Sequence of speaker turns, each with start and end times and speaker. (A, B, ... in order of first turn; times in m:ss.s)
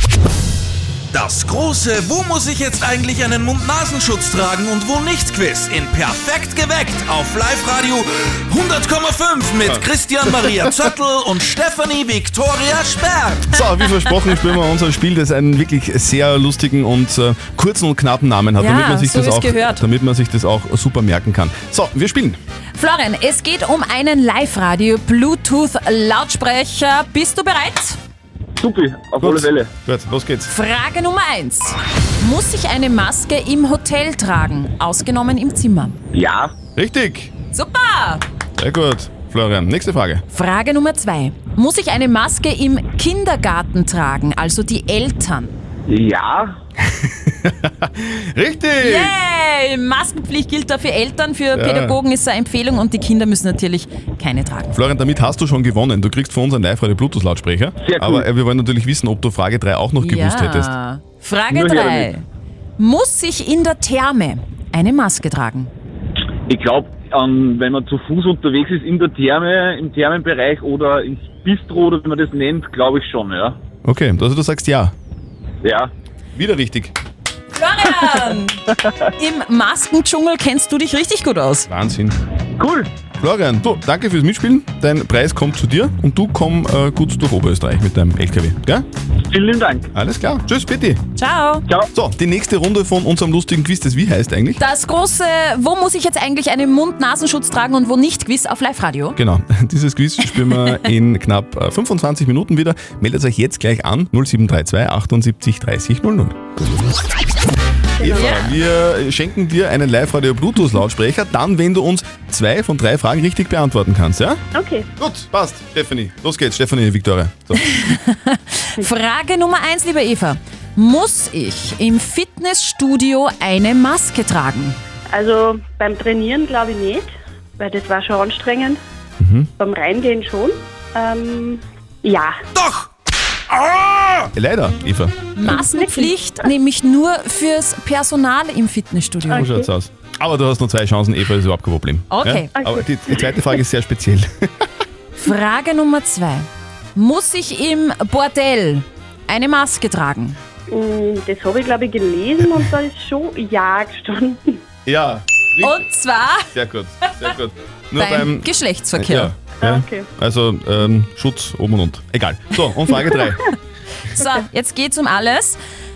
0:01.1-0:13.6 A
0:09.6-0:10.5 B
0:13.5-0:22.4 B
0:18.6-0:19.8 C
0:22.8-0:28.0 C
0:28.6-0:29.7 D
0:29.2-0:30.5 B
0:30.5-0:36.0 C
0:36.2-0:36.5 D
0:36.8-0:37.3 B
0:37.5-0:38.2 C
0:38.6-0:40.2 B
0:40.3-0:45.6 C
0:45.9-0:46.6 D
0:46.9-0:49.2 B
0:48.8-0:54.8 C
0:51.5-0:52.0 B
0:54.7-1:00.7 B
0:57.8-0:58.2 D
1:00.0-1:02.2 C
1:01.5-1:02.1 D
1:02.8-1:05.7 C
1:06.5-1:13.6 D
1:13.8-1:14.9 B
1:15.6-1:15.9 D
1:16.4-1:17.0 B
1:17.5-1:18.6 C
1:19.2-1:21.7 C
1:21.7-1:22.2 B
1:22.6-1:22.9 D
1:23.2-1:28.9 B
1:29.3-1:29.9 D
1:29.9-1:31.0 B
1:31.2-1:31.7 C
1:31.9-1:34.6 B
1:34.6-1:39.2 C
1:39.2-1:46.4 B
1:48.0-1:48.3 E
1:48.0-1:54.4 B
1:48.1-1:48.6 C
1:54.5-1:54.9 E
1:55.0-1:57.6 B
1:57.7-2:04.8 C
2:05.1-2:08.8 E
2:09.2-2:09.5 B
2:09.6-2:12.3 E
2:12.6-2:12.9 A
2:13.6-2:14.2 A
2:14.3-2:15.5 B
2:15.4-2:19.5 C
2:15.6-2:16.1 E
2:19.3-2:19.7 E
2:19.3-2:24.6 B
2:22.1-2:22.5 C
2:22.6-2:23.2 E
2:25.2-2:30.4 C
2:30.7-2:34.4 E
2:34.9-2:35.8 B
2:35.6-2:36.5 C
2:36.5-2:43.5 B
2:38.0-2:39.3 C
2:39.6-2:40.1 E
2:44.1-2:45.6 C